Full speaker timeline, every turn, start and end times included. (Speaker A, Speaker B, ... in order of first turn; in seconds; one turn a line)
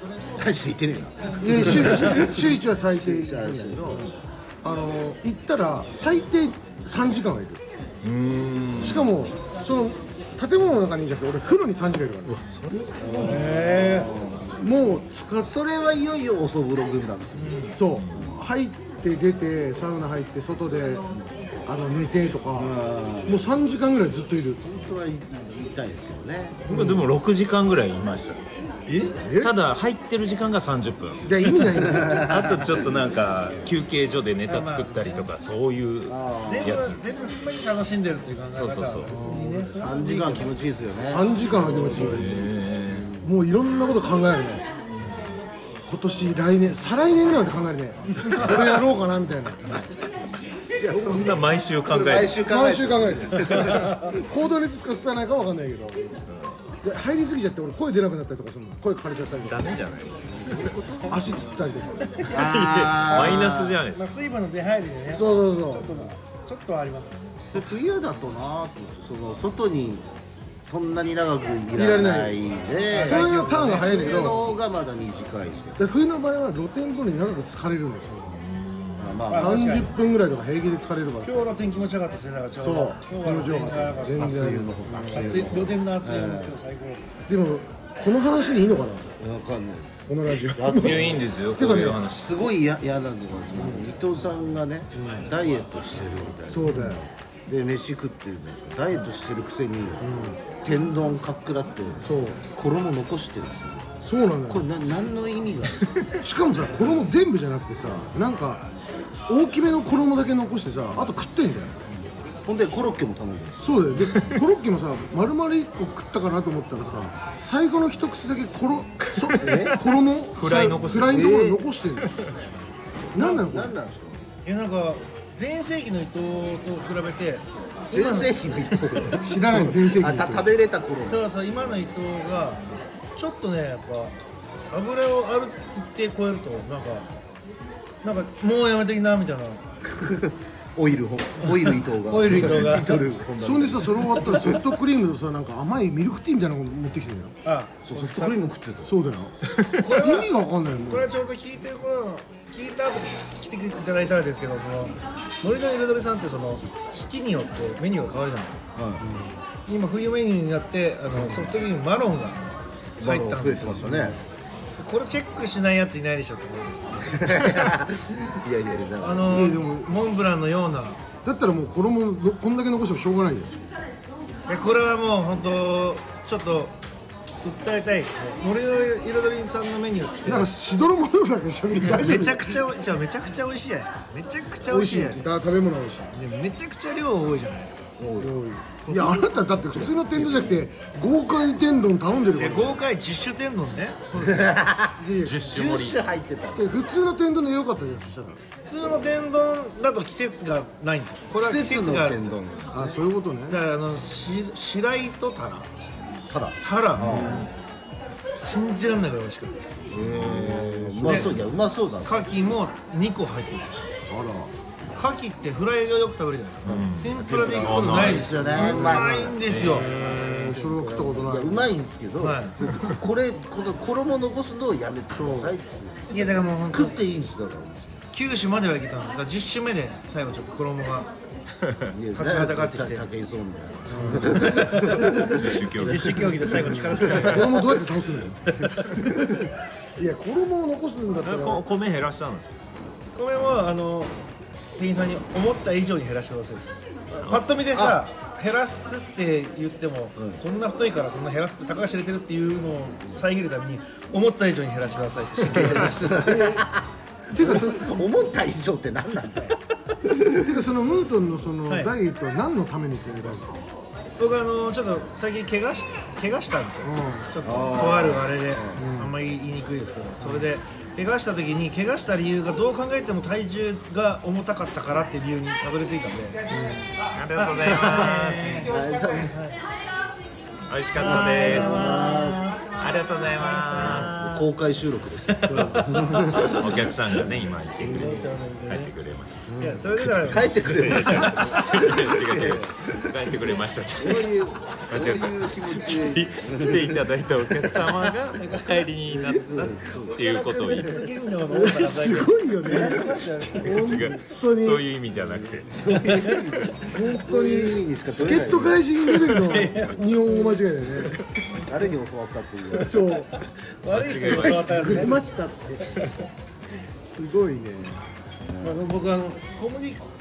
Speaker A: 0.4-4.1
Speaker B: 1.4-4.1
Speaker B: 4.6-7.6
Speaker C: 8.0-9.1
Speaker B: 8.8-12.4
Speaker C: 12.2-13.5
Speaker A: 13.0-14.8
Speaker B: 13.1-13.4
Speaker D: 13.2-14.1
Speaker B: 14.6-15.5
Speaker A: 15.4-18.4
Speaker D: 17.4-17.7
Speaker B: 17.6-21.0
Speaker C: 17.9-18.2
Speaker B: 21.6-24.6
Speaker A: 22.6-23.4
Speaker A: 24.6-26.7
Speaker C: 26.7-28.4
Speaker B: 26.7-27.1
Speaker B: 28.9-29.5
Speaker C: 29.2-31.2
Speaker B: 31.2-32.3
Speaker A: 31.8-32.7
Speaker C: 32.1-37.0
Speaker D: 34.5-35.3
Speaker A: 36.1-36.8
Speaker D: 36.4-40.6
Speaker C: 38.5-39.1
Speaker B: 39.1-39.6
Speaker A: 39.7-43.3
Speaker B: 41.1-42.5
Speaker C: 42.0-43.1
Speaker B: 43.2-44.6
Speaker B: 45.9-49.8
Speaker A: 50.8-54.2
Speaker C: 50.9-52.4
Speaker B: 52.4-56.2
Speaker C: 53.6-53.9
Speaker C: 56.3-56.6
Speaker B: 56.8-59.7
Speaker C: 59.4-60.8
Speaker A: 60.3-61.4
Speaker B: 61.0-62.1
Speaker C: 62.3-64.1
Speaker A: 62.3-63.8
Speaker D: 63.9-67.5
Speaker B: 65.1-66.0
Speaker A: 67.5-70.0
Speaker A: 70.6-75.8
Speaker B: 71.7-74.5
Speaker D: 72.9-74.3
Speaker B: 75.8-78.4
Speaker C: 78.3-79.2
Speaker A: 79.0-79.6
Speaker D: 79.3-79.9
Speaker B: 79.3-81.8
Speaker D: 81.2-84.6
Speaker B: 82.6-85.5
Speaker A: 84.1-86.6
Speaker D: 85.1-87.1
Speaker B: 87.3-89.1
Speaker A: 89.2-91.3
Speaker B: 90.1-92.0
Speaker C: 90.8-92.3
Speaker A: 92.1-103.9
Speaker B: 93.5-93.9
Speaker B: 95.0-95.3
Speaker B: 96.5-97.0
Speaker B: 100.0-100.4
Speaker B: 102.0-102.4
Speaker B: 104.0-104.7
Speaker A: 104.5-105.8
Speaker B: 106.2-108.6
Speaker B: 109.3-111.9
Speaker A: 112.4-113.8
Speaker B: 113.6-122.1
Speaker C: 114.0-114.4
Speaker C: 119.2-119.8
Speaker A: 119.4-119.8
Speaker C: 120.3-121.2
Speaker A: 121.0-121.6
Speaker C: 122.0-122.3
Speaker B: 123.1-123.8
Speaker D: 123.1-123.5
Speaker A: 123.5-124.2
Speaker D: 124.4-127.5
Speaker A: 127.9-131.2
Speaker B: 127.9-128.3
Speaker B: 128.9-130.5
Speaker D: 131.0-132.6
Speaker D: 133.1-134.2
Speaker D: 134.7-137.1
Speaker D: 138.0-139.6
Speaker A: 139.9-144.7
Speaker D: 142.0-143.0
Speaker B: 143.4-147.3
Speaker D: 147.4-148.4
Speaker A: 147.8-148.9
Speaker B: 148.8-151.1
Speaker D: 149.7-150.3
Speaker D: 150.9-158.6
Speaker A: 158.7-159.1
Speaker D: 159.7-162.5
Speaker A: 161.1-161.5
Speaker D: 163.0-164.2
Speaker A: 163.0-164.2
Speaker D: 164.8-167.3
Speaker A: 167.2-169.5
Speaker D: 169.0-171.0
Speaker B: 169.3-169.9
Speaker B: 171.2-173.5
Speaker D: 174.5-176.8
Speaker D: 177.4-180.5
Speaker B: 180.2-182.6
Speaker D: 181.8-185.3
Speaker B: 184.6-186.1
Speaker D: 186.1-187.9
Speaker A: 188.0-188.3
Speaker B: 188.2-192.8
Speaker D: 188.8-189.3
Speaker A: 189.8-190.6
Speaker D: 192.3-194.4
Speaker B: 194.1-195.6
Speaker A: 194.2-196.8
Speaker C: 195.2-196.0
Speaker B: 196.5-198.4
Speaker D: 198.6-202.4
Speaker A: 201.3-203.0
Speaker B: 202.7-203.6
Speaker D: 203.5-205.9
Speaker A: 206.3-207.5
Speaker D: 206.6-207.5
Speaker C: 207.1-207.4
Speaker D: 208.4-209.9
Speaker C: 209.9-211.4
Speaker A: 209.9-212.5
Speaker D: 211.0-211.3
Speaker D: 212.0-213.9
Speaker B: 214.1-214.5
Speaker D: 214.9-219.9
Speaker C: 216.7-218.8
Speaker A: 216.7-228.0
Speaker B: 218.5-221.7
Speaker C: 219.5-220.6
Speaker D: 222.2-222.6
Speaker B: 225.1-225.5
Speaker D: 226.1-227.0
Speaker D: 228.1-231.1
Speaker A: 231.9-237.4
Speaker D: 232.1-233.1
Speaker B: 233.9-235.2
Speaker D: 233.9-234.4
Speaker C: 234.8-236.5
Speaker D: 235.8-237.7
Speaker B: 236.5-241.7
Speaker C: 241.2-242.6
Speaker D: 243.1-244.1
Speaker D: 244.8-256.5
Speaker A: 247.7-248.0
Speaker A: 255.5-260.5
Speaker B: 256.2-256.6
Speaker B: 257.3-258.0
Speaker B: 260.4-263.6
Speaker D: 261.7-261.9
Speaker D: 264.2-276.4
Speaker B: 266.8-267.3
Speaker A: 267.4-268.8
Speaker B: 268.7-269.1
Speaker B: 276.5-276.9
Speaker C: 277.1-278.7
Speaker D: 277.3-279.6
Speaker A: 277.8-279.4
Speaker C: 280.7-284.2
Speaker D: 281.0-282.7
Speaker A: 281.1-282.5
Speaker D: 283.4-284.4
Speaker A: 283.8-286.7
Speaker D: 285.3-286.7
Speaker C: 285.4-301.0
Speaker D: 287.8-288.9
Speaker B: 289.5-289.7
Speaker D: 289.6-291.4
Speaker A: 290.3-298.0
Speaker D: 298.4-298.8
Speaker A: 299.1-301.0
Speaker D: 299.5-303.8
Speaker B: 301.5-304.9
Speaker A: 302.8-303.2
Speaker C: 303.4-306.1
Speaker A: 305.1-308.9
Speaker D: 306.0-306.6
Speaker B: 306.9-311.2
Speaker C: 309.1-309.8
Speaker D: 309.6-310.0
Speaker C: 311.0-311.2
Speaker A: 311.7-313.1
Speaker B: 312.7-313.3
Speaker D: 313.2-315.3
Speaker C: 313.9-315.2
Speaker B: 314.3-315.8
Speaker B: 317.1-318.0
Speaker A: 318.5-318.8
Speaker D: 318.6-320.1